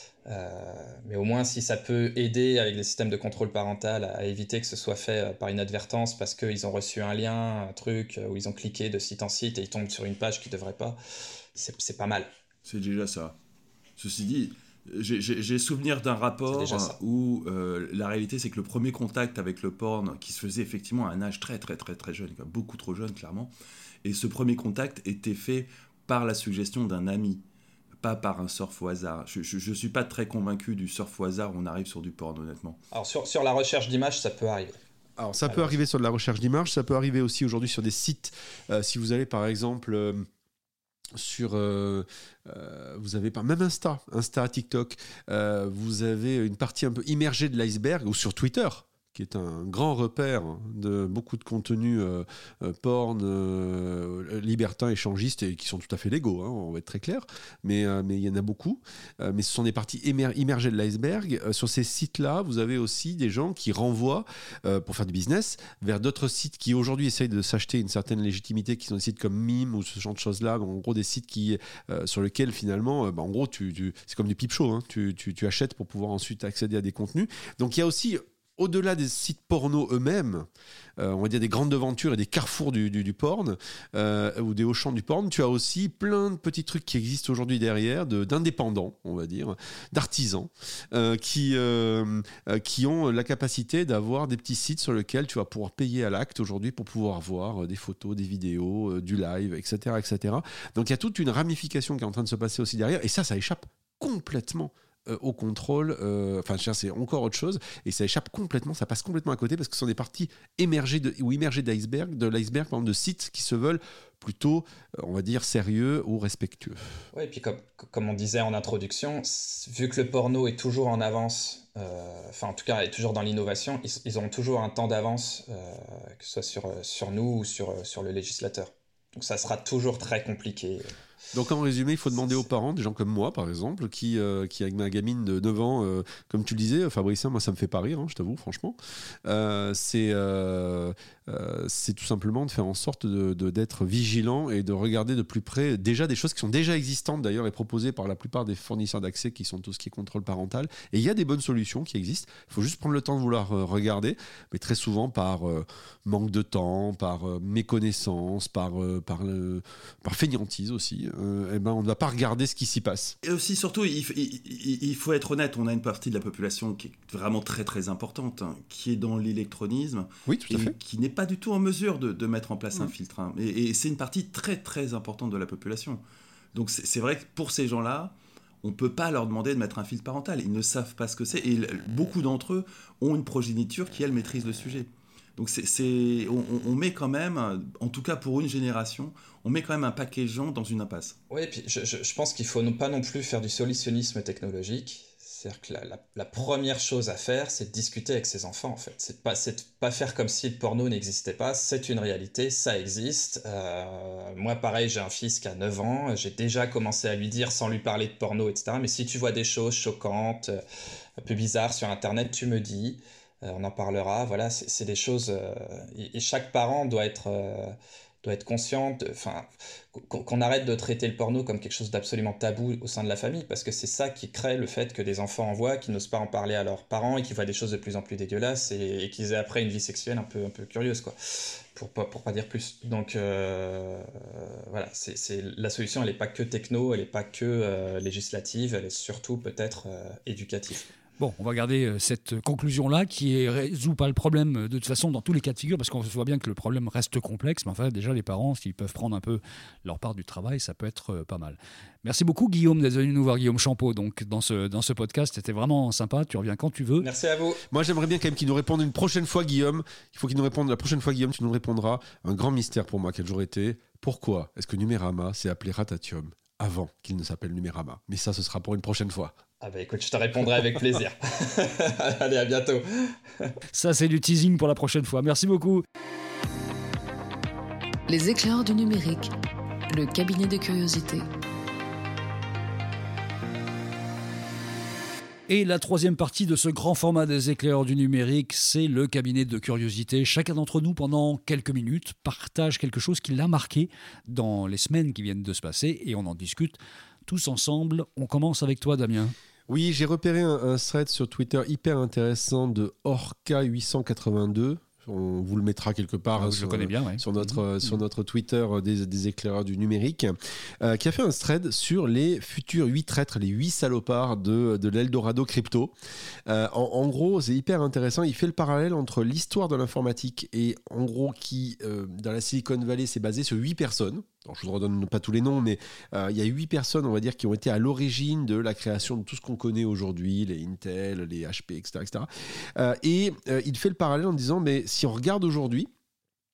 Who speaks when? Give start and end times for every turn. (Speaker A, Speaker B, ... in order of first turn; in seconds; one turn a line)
Speaker A: 0.2-11.0
Speaker A: 11.6-12.3
Speaker B: 12.6-13.3
Speaker B: 14.0-23.5
Speaker C: 16.6-16.9
Speaker B: 24.0-27.4
Speaker B: 28.0-32.8
Speaker A: 32.9-34.8
Speaker C: 35.2-40.3
Speaker A: 35.5-35.7
Speaker C: 41.1-80.5
Speaker C: 81.0-117.0
Speaker A: 117.1-130.9
Speaker C: 131.3-163.1
Speaker B: 163.2-176.0
Speaker C: 170.3-170.7
Speaker B: 176.5-191.2
Speaker A: 191.3-210.6
Speaker A: 211.2-231.2
Speaker A: 231.7-240.9
Speaker D: 241.2-257.1
Speaker A: 257.0-257.6
Speaker C: 257.7-269.3
Speaker A: 269.6-273.5
Speaker D: 273.7-275.8
Speaker E: 278.1-279.3
Speaker E: 279.9-281.3
Speaker D: 285.5-299.3
Speaker C: 299.7-315.9
Speaker D: 306.4-307.9
Speaker C: 316.5-335.9